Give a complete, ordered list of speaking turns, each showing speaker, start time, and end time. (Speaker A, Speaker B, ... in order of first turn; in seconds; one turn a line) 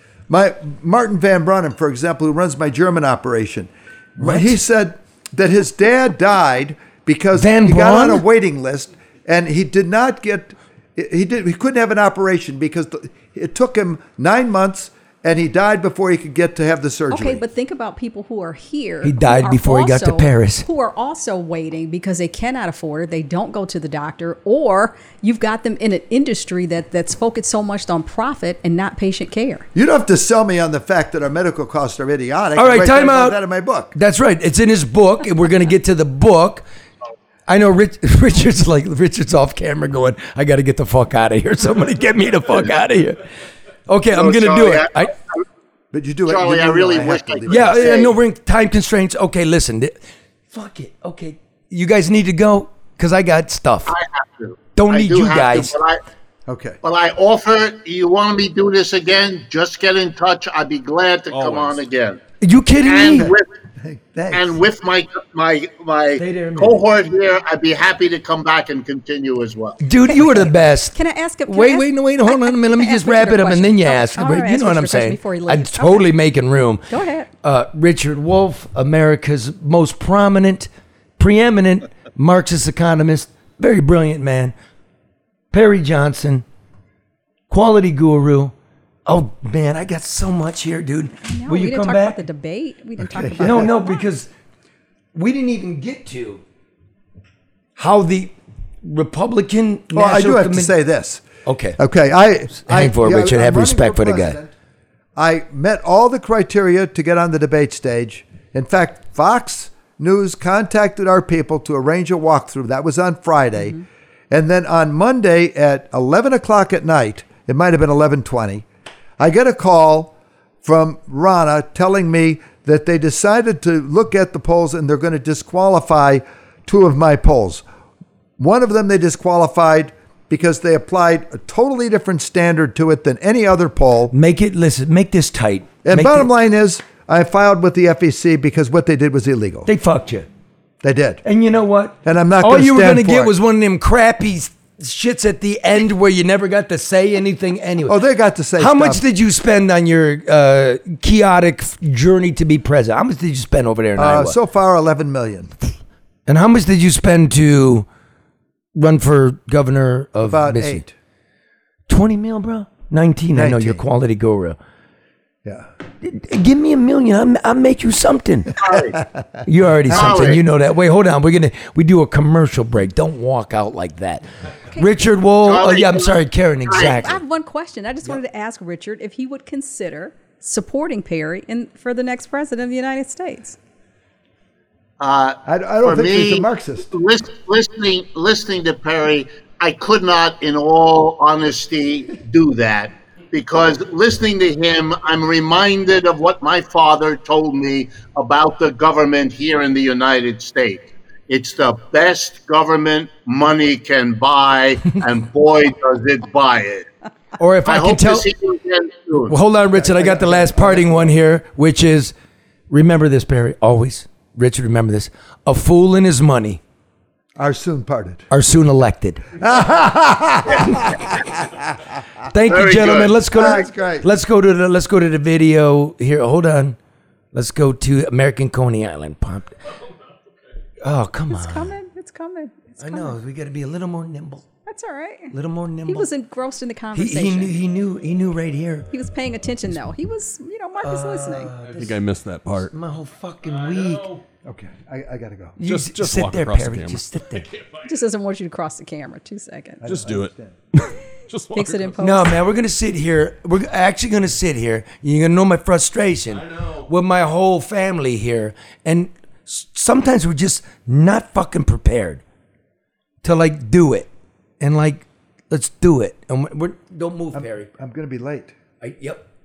Speaker A: 0.3-17.4
Speaker B: 4.2-4.6
Speaker B: 7.4-8.2
Speaker C: 17.1-29.7
Speaker B: 19.0-20.7
Speaker A: 29.8-33.9
Speaker B: 32.6-33.4
Speaker B: 33.9-36.6
Speaker B: 37.5-43.3
Speaker B: 43.9-45.1
Speaker D: 44.1-44.9
Speaker A: 45.9-48.1
Speaker D: 46.3-48.1
Speaker B: 47.5-53.9
Speaker D: 53.9-56.0
Speaker B: 54.8-55.8
Speaker A: 56.5-56.8
Speaker D: 56.8-62.2
Speaker E: 61.3-61.8
Speaker B: 62.4-63.3
Speaker D: 62.9-63.5
Speaker A: 63.8-64.6
Speaker D: 64.3-69.8
Speaker B: 66.2-66.8
Speaker B: 69.8-76.9
Speaker C: 70.0-76.1
Speaker C: 76.9-77.3
Speaker B: 77.4-84.5
Speaker B: 85.5-86.5
Speaker B: 87.5-88.5
Speaker B: 89.1-92.2
Speaker C: 91.3-94.0
Speaker A: 93.0-93.7
Speaker B: 93.4-94.3
Speaker B: 95.2-96.4
Speaker B: 97.8-100.7
Speaker A: 99.9-101.2
Speaker B: 101.5-101.8
Speaker A: 101.8-104.5
Speaker B: 102.6-104.4
Speaker A: 105.2-113.8
Speaker A: 114.3-118.7
Speaker A: 119.2-127.7
Speaker A: 128.4-134.1
Speaker B: 134.1-136.3
Speaker A: 135.8-139.7
Speaker B: 139.7-140.3
Speaker A: 140.8-141.2
Speaker B: 141.2-148.0
Speaker A: 142.0-143.3
Speaker A: 147.9-149.0
Speaker B: 148.6-154.4
Speaker A: 154.0-155.5
Speaker B: 156.3-157.9
Speaker B: 158.8-160.8
Speaker A: 160.2-160.9
Speaker B: 161.9-164.6
Speaker A: 163.3-163.8
Speaker B: 166.0-168.5
Speaker D: 168.6-169.0
Speaker B: 169.5-177.2
Speaker A: 169.9-170.2
Speaker D: 169.9-170.4
Speaker D: 175.4-176.9
Speaker C: 176.8-183.6
Speaker D: 185.0-206.9
Speaker A: 185.5-186.9
Speaker B: 207.4-208.3
Speaker D: 207.7-209.4
Speaker B: 209.3-212.1
Speaker A: 209.7-211.2
Speaker B: 212.7-216.6
Speaker A: 217.4-218.3
Speaker B: 218.3-219.3
Speaker A: 219.4-221.8
Speaker B: 220.6-220.9
Speaker B: 222.3-226.8
Speaker D: 222.5-223.2
Speaker A: 223.3-224.1
Speaker B: 227.3-229.6
Speaker B: 230.8-231.7
Speaker C: 231.3-233.2
Speaker B: 232.8-234.5
Speaker C: 234.7-235.3
Speaker B: 235.3-236.1
Speaker C: 235.9-237.7
Speaker B: 236.9-238.9
Speaker C: 238.9-241.6
Speaker B: 240.8-244.1
Speaker E: 241.6-242.8
Speaker E: 243.4-244.2
Speaker A: 244.4-245.6
Speaker B: 245.6-247.5
Speaker E: 245.6-248.0
Speaker C: 247.8-250.0
Speaker A: 249.8-250.5
Speaker E: 249.8-252.0
Speaker C: 251.5-252.4
Speaker B: 252.0-262.2
Speaker E: 256.3-256.9
Speaker B: 263.2-264.1
Speaker B: 264.6-267.7
Speaker A: 267.3-268.6
Speaker B: 268.8-269.3